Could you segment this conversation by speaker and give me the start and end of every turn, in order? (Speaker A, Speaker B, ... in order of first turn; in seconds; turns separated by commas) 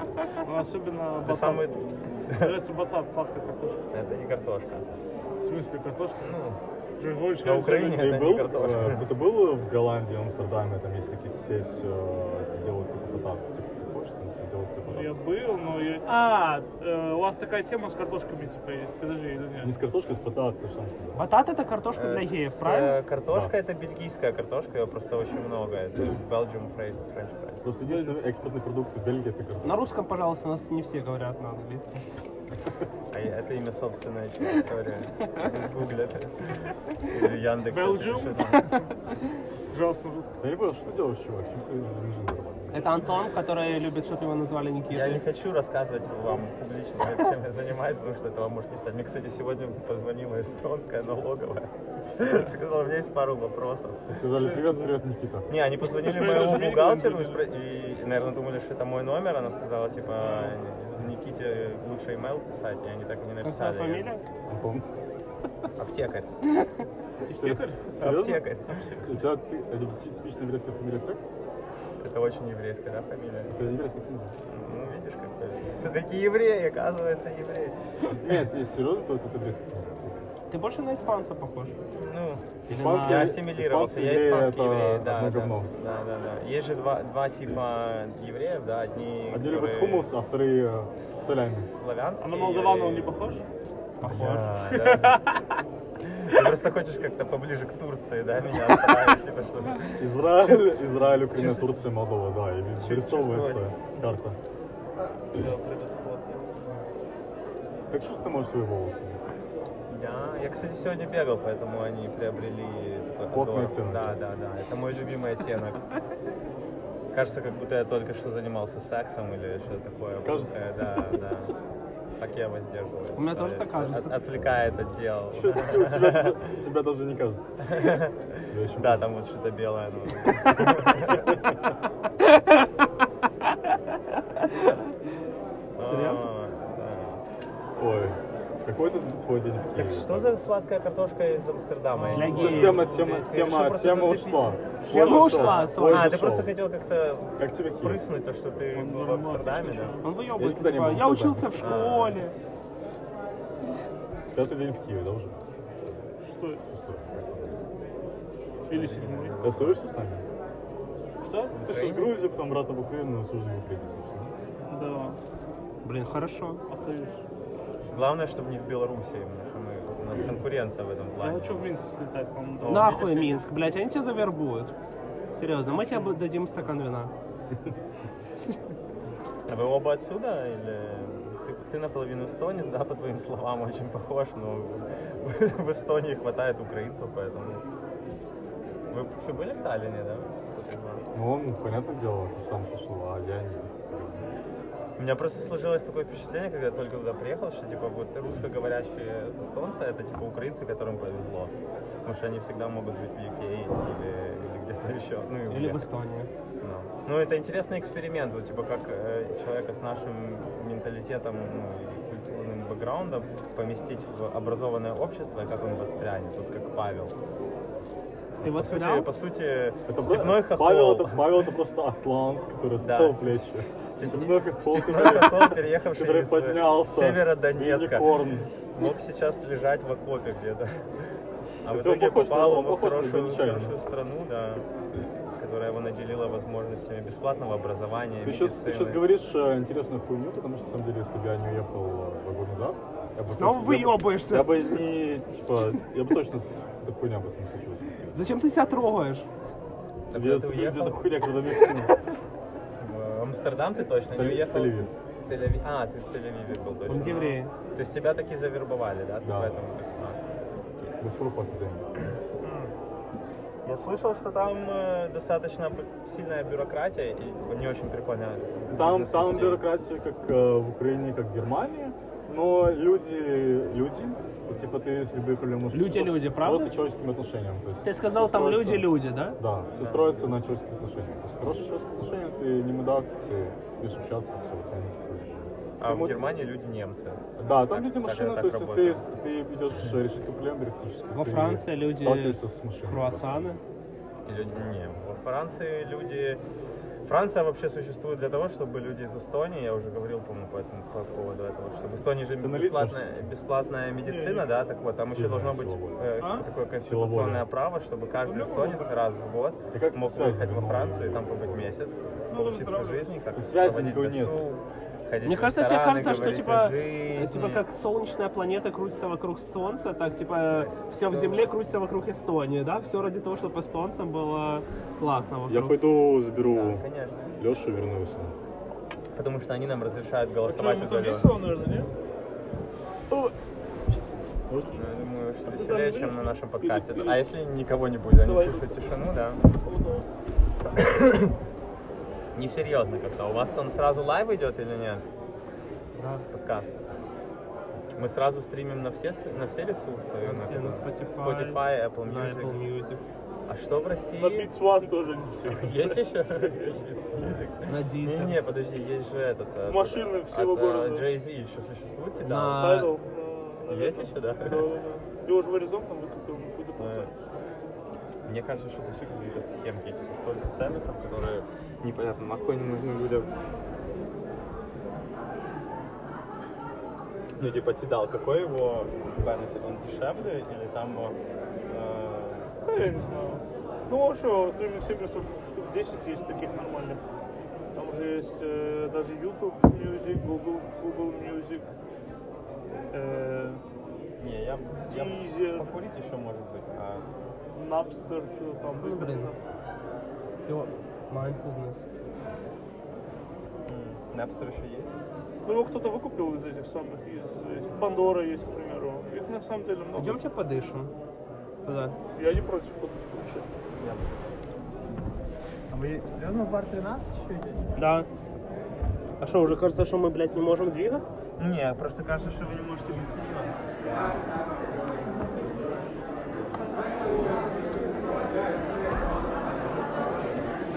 Speaker A: 0.4-3.9, Speaker B: 1.2-1.8, Speaker B: 2.3-2.6, Speaker B: 3.9-4.8, Speaker A: 5.4-6.4, Speaker B: 6.2-6.6, Speaker A: 7.0-8.0, Speaker B: 7.3-9.0, Speaker C: 7.9-15.1, Speaker A: 14.8-19.7, Speaker C: 19.6-21.2, Speaker D: 21.1-23.0, Speaker B: 21.9-27.7, Speaker C: 23.3-23.5, Speaker C: 27.6-30.0, Speaker A: 27.9-28.2, Speaker D: 29.6-32.0, Speaker B: 33.1-36.5, Speaker B: 37.1-38.7, Speaker A: 37.7-38.9, Speaker A: 39.7-40.4, Speaker C: 40.4-42.8, Speaker D: 42.7-45.2, Speaker B: 44.9-54.0, Speaker C: 54.1-55.5, Speaker A: 54.3-54.9, Speaker B: 55.5-64.1, Speaker A: 55.9-57.4, Speaker A: 60.1-60.6, Speaker D: 63.4-64.2, Speaker C: 64.5-64.9, Speaker B: 65.8-66.3, Speaker A: 67.2-67.9, Speaker C: 67.2-68.5, Speaker B: 68.0-68.7, Speaker A: 68.7-69.0, Speaker C: 69.0-71.2, Speaker B: 72.0-73.5, Speaker C: 73.5-74.3, Speaker B: 74.5-77.8, Speaker C: 78.1-80.2, Speaker D: 80.5-81.7, Speaker B: 82.0-90.1, Speaker C: 82.7-85.7, Speaker D: 82.7-83.4, Speaker C: 89.3-91.7, Speaker B: 91.7-93.2, Speaker A: 92.2-93.4, Speaker C: 94.0-94.5, Speaker A: 94.0-95.4, Speaker D: 94.0-94.5, Speaker B: 94.2-95.2, Speaker B: 96.0-100.0, Speaker C: 100.0-104.4, Speaker B: 101.3-101.7, Speaker B: 102.8-103.8, Speaker B: 105.0-106.5, Speaker C: 107.9-109.2, Speaker B: 109.9-115.8, Speaker C: 113.3-114.2, Speaker B: 117.1-121.5, Speaker C: 120.2-120.7, Speaker B: 122.2-126.3, Speaker D: 123.2-124.2, Speaker C: 125.3-127.7, Speaker B: 127.7-128.2, Speaker C: 128.4-129.1, Speaker B: 128.8-131.3, Speaker C: 130.5-131.1, Speaker B: 135.8-137.2, Speaker D: 135.8-136.2, Speaker C: 137.8-140.3, Speaker B: 139.8-150.0, Speaker A: 141.9-142.8, Speaker D: 142.1-143.1, Speaker C: 142.3-146.6, Speaker D: 144.8-146.3, Speaker C: 147.4-148.0, Speaker A: 148.7-150.1, Speaker D: 150.0-152.3, Speaker C: 150.3-151.9, Speaker B: 151.6-152.2, Speaker C: 154.3-155.4, Speaker A: 156.2-156.6, Speaker C: 156.7-157.6, Speaker A: 158.7-159.5, Speaker B: 158.7-159.8, Speaker C: 159.4-160.2, Speaker A: 161.2-161.6, Speaker B: 161.5-162.2, Speaker C: 161.6-164.3, Speaker A: 164.7-165.2, Speaker D: 165.8-166.6, Speaker A: 166.7-167.2, Speaker B: 167.9-171.6, Speaker A: 171.2-173.4, Speaker D: 172.6-174.7, Speaker D: 175.3-177.1, Speaker A: 175.8-176.1, Speaker B: 179.5-187.6, Speaker B: 188.9-191.1, Speaker C: 191.1-194.3, Speaker B: 195.0-201.5, Speaker B: 202.0-205.8, Speaker D: 205.5-206.3, Speaker B: 206.6-217.1, Speaker D: 218.4-219.1, Speaker B: 218.4-221.2, Speaker C: 219.9-228.5, Speaker B: 222.8-228.2, Speaker B: 228.7-230.7, Speaker B: 231.6-234.7, Speaker C: 231.7-233.8, Speaker B: 235.3-239.0, Speaker C: 238.2-248.2, Speaker D: 243.3-244.7, Speaker D: 248.1-249.3, Speaker B: 250.1-251.0, Speaker C: 250.1-251.9, Speaker B: 252.8-260.2, Speaker C: 254.1-254.9, Speaker D: 256.9-257.5, Speaker C: 259.2-259.6, Speaker C: 261.0-261.9, Speaker B: 262.4-262.7, Speaker B: 263.6-269.6, Speaker C: 268.7-286.4, Speaker D: 275.7-276.7, Speaker D: 277.8-279.4, Speaker B: 279.7-280.4, Speaker B: 285.8-289.0, Speaker C: 287.4-293.6, Speaker D: 291.1-293.6, Speaker B: 294.2-296.4, Speaker C: 294.3-294.6, Speaker B: 297.0-317.6, Speaker C: 302.4-303.2, Speaker A: 304.0-304.5, Speaker C: 305.0-306.1, Speaker A: 306.2-306.5, Speaker C: 306.8-307.4, Speaker A: 308.2-309.0, Speaker C: 309.7-311.7, Speaker A: 312.3-313.2, Speaker C: 313.3-314.5, Speaker D: 315.2-325.8, Speaker B: 320.5-321.5, Speaker C: 325.5-326.8, Speaker B: 326.5-327.3, Speaker C: 327.4-328.3, Speaker B: 329.1-331.4, Speaker A: 330.4-331.9, Speaker C: 334.5-334.9, Speaker B: 334.7-339.4, Speaker A: 335.4-337.3, Speaker A: 338.1-340.1, Speaker B: 340.8-341.3, Speaker B: 342.3-345.0, Speaker D: 345.9-346.2, Speaker B: 346.3-346.8, Speaker B: 347.9-352.6, Speaker D: 350.2-353.0, Speaker B: 353.4-354.5, Speaker A: 354.1-356.8, Speaker B: 355.4-362.8, Speaker D: 357.7-358.4, Speaker A: 359.7-361.1, Speaker D: 362.2-362.9, Speaker A: 362.5-367.1, Speaker B: 363.6-364.7, Speaker B: 366.8-367.1, Speaker B: 368.2-373.3, Speaker B: 377.4-381.1, Speaker B: 381.7-382.5, Speaker A: 382.6-387.0, Speaker A: 387.7-391.7, Speaker A: 392.9-393.6, Speaker B: 394.2-397.0, Speaker A: 394.9-395.7, Speaker A: 397.5-399.4, Speaker D: 398.8-399.3, Speaker D: 400.5-401.8, Speaker B: 403.7-404.9, Speaker A: 405.4-410.2, Speaker D: 409.9-410.9, Speaker D: 411.6-411.9, Speaker A: 412.1-413.5, Speaker B: 413.8-414.2, Speaker B: 415.7-417.7, Speaker D: 417.8-418.1, Speaker D: 419.2-421.1, Speaker B: 421.4-423.6